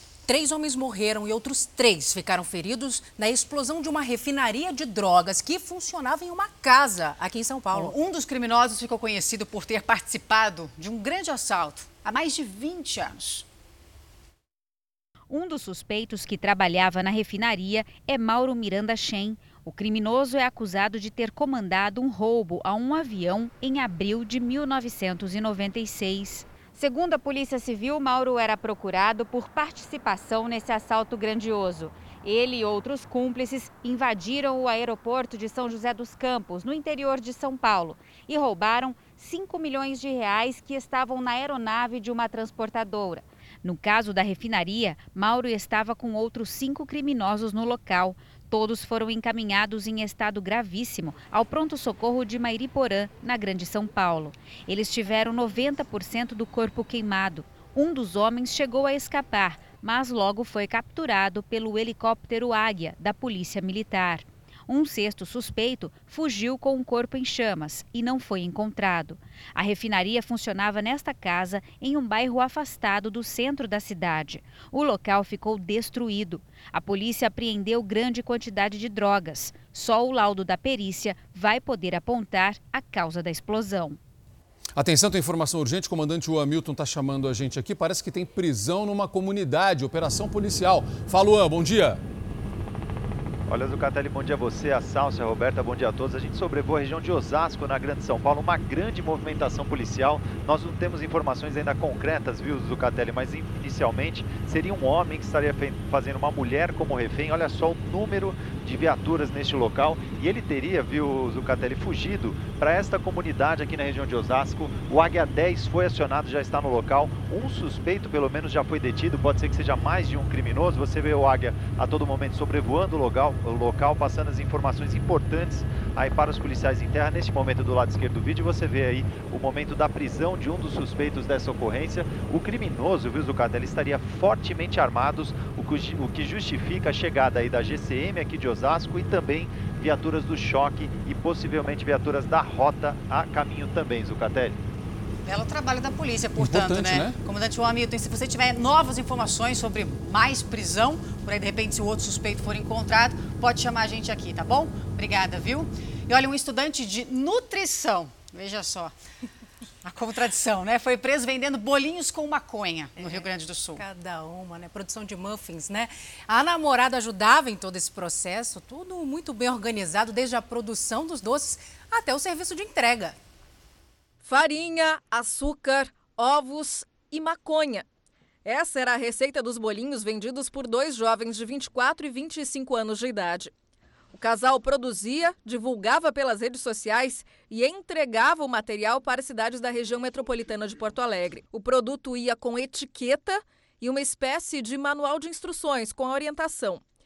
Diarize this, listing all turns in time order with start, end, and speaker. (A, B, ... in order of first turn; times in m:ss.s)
0:00.3-0:08.0 A
0:07.7-0:13.4 B
0:15.3-1:24.0 C
1:24.8-1:32.0 D
1:33.5-2:24.6 E
2:25.2-2:38.9 B
2:26.4-2:27.2 D
2:39.8-2:43.9 B
2:43.0-2:47.3 A
2:48.0-2:53.1 A
2:54.2-2:57.8 F
2:58.4-3:03.5 F
3:04.1-3:16.8 F